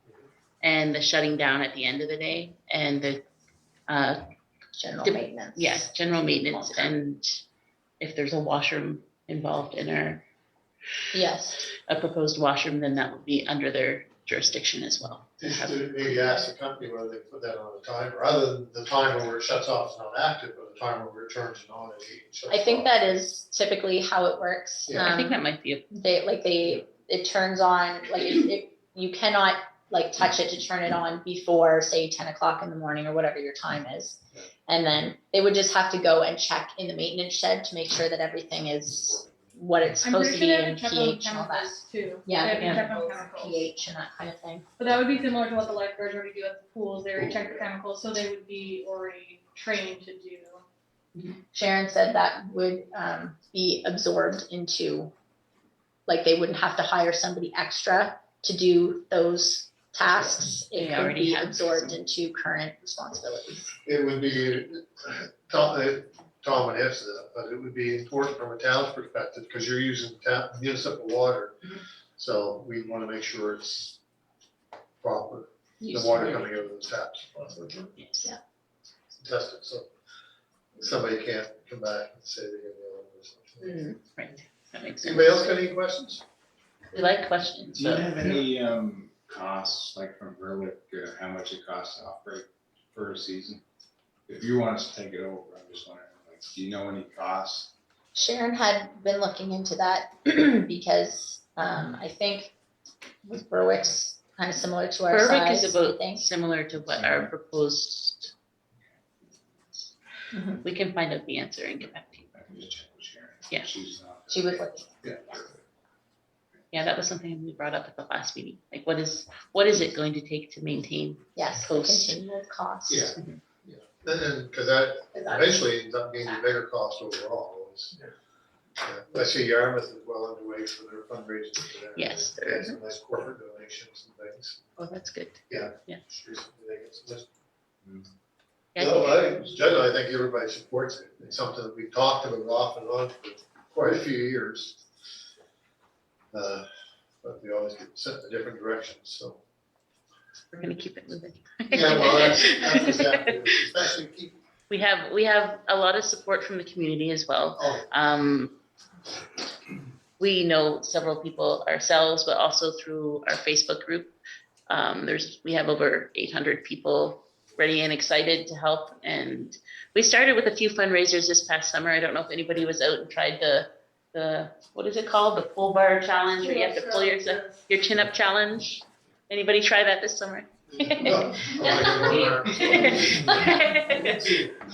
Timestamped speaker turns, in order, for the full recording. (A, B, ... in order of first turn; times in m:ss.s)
0:00.6-0:03.2 A
0:03.9-0:04.2 A
0:04.8-0:05.8 B
0:05.0-0:07.4 A
0:08.0-0:10.2 A
0:11.1-0:11.6 B
0:11.7-0:16.4 A
0:15.4-0:23.0 C
0:22.5-0:25.4 B
0:24.9-0:25.9 A
0:25.9-0:44.7 B
0:40.0-0:43.7 D
0:44.8-0:50.6 D
0:47.2-0:47.6 C
0:51.5-0:55.1 B
0:56.1-1:03.7 B
1:00.8-1:02.0 A
1:03.8-1:11.6 C
1:12.2-1:14.0 C
1:15.0-1:18.0 C
1:15.8-1:16.4 B
1:18.0-1:18.3 A
1:19.2-1:19.9 C
1:20.8-1:23.8 C
1:24.0-1:25.5 A
1:25.0-1:26.2 C
1:26.9-1:28.1 A
1:27.8-1:33.6 E
1:34.3-1:37.7 E
1:38.2-1:42.5 B
1:43.2-1:46.3 B
1:45.1-1:48.3 A
1:46.8-1:47.3 E
1:50.3-1:50.6 B
1:50.6-1:52.3 A
1:52.3-1:54.7 E
1:54.3-1:55.4 B
1:56.7-2:02.2 A
2:01.4-2:03.1 B
2:02.9-2:08.0 C
2:03.1-2:03.4 A
2:05.2-2:05.6 B
2:08.8-2:14.6 C
2:12.0-2:12.8 A
2:14.8-2:16.0 A
2:15.5-2:17.3 C
2:18.8-2:19.5 A
2:18.8-2:24.8 C
2:26.3-2:26.7 C
2:27.2-2:29.4 C
2:30.5-2:33.3 A
2:31.7-2:34.4 C
2:34.7-2:38.6 A
2:37.6-2:37.9 C
2:40.2-2:44.1 A
2:44.7-3:04.4 A
2:56.4-2:57.6 D
3:00.7-3:03.5 C